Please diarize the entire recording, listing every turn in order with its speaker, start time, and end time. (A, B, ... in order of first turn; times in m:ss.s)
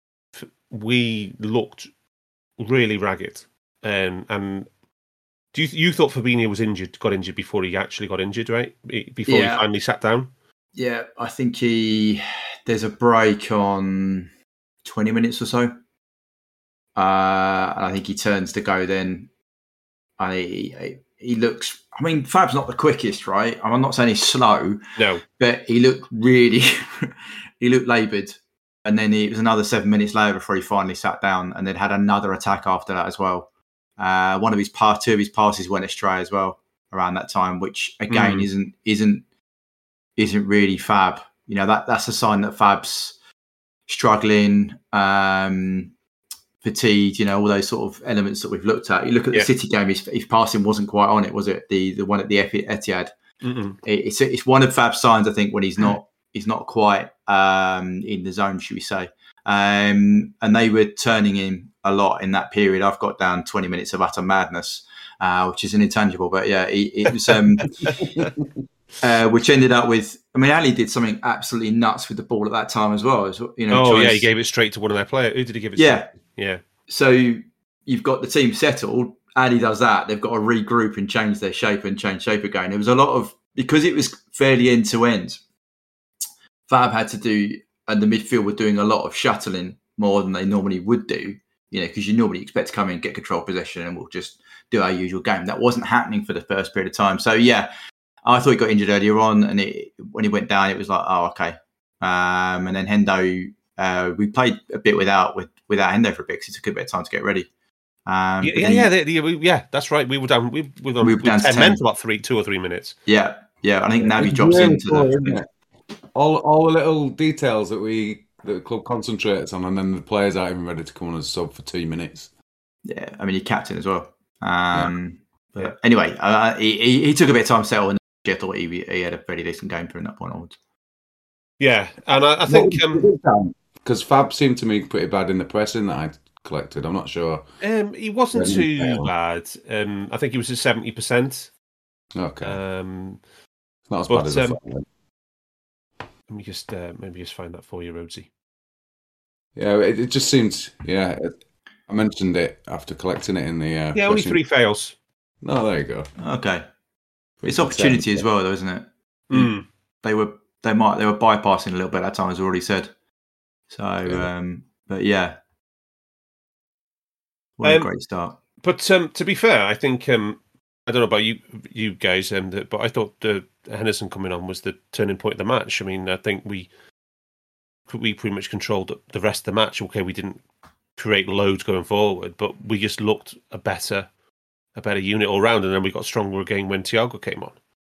0:00.4-0:01.9 A
0:02.6-0:04.7 A
0:05.5-0:10.3 A
0:09.3-0:09.6 B
0:10.8-0:14.3 B
0:14.8-0:15.7 B
0:17.0-0:19.3 B
0:20.2-0:39.2 B
0:25.0-0:25.2 A
0:38.1-0:38.5 A
0:40.2-0:43.2 B
0:43.9-0:45.9 B
0:46.6-0:53.1 B
0:53.4-0:53.8 A
0:53.8-1:07.9 B
1:07.6-1:08.3 A
1:08.0-1:08.5 C
1:09.0-1:14.3 B
1:13.7-1:16.6 A
1:15.8-1:16.1 B
1:16.9-1:25.4 B
1:26.7-1:37.7 B
1:38.2-1:47.5 B
1:48.1-1:48.9 B
1:48.4-1:53.0 A
1:51.0-1:51.8 B
1:53.1-1:55.4 B
1:54.0-1:55.5 C
1:56.1-2:02.3 C
2:02.9-2:10.6 B
2:11.6-2:13.0 A
2:12.5-2:17.4 C
2:17.6-2:21.5 A
2:18.3-2:19.1 C
2:22.2-2:22.6 C
2:22.4-2:23.2 A
2:23.9-2:24.9 C
2:24.1-2:24.6 A
2:26.3-2:28.3 A
2:29.6-2:31.4 C
2:31.9-2:34.4 C
2:34.0-2:34.9 A
2:35.4-2:36.1 C
2:36.2-2:36.6 B
2:37.4-2:38.2 C
2:37.4-2:39.5 B
2:39.3-2:39.6 A
2:40.0-2:42.9 B
2:43.7-2:45.4 B
2:47.6-2:48.4 B
2:47.6-2:47.9 A
2:48.6-2:56.7 A
2:57.9-3:00.4 A
3:01.0-3:04.1 A
3:04.8-3:07.6 A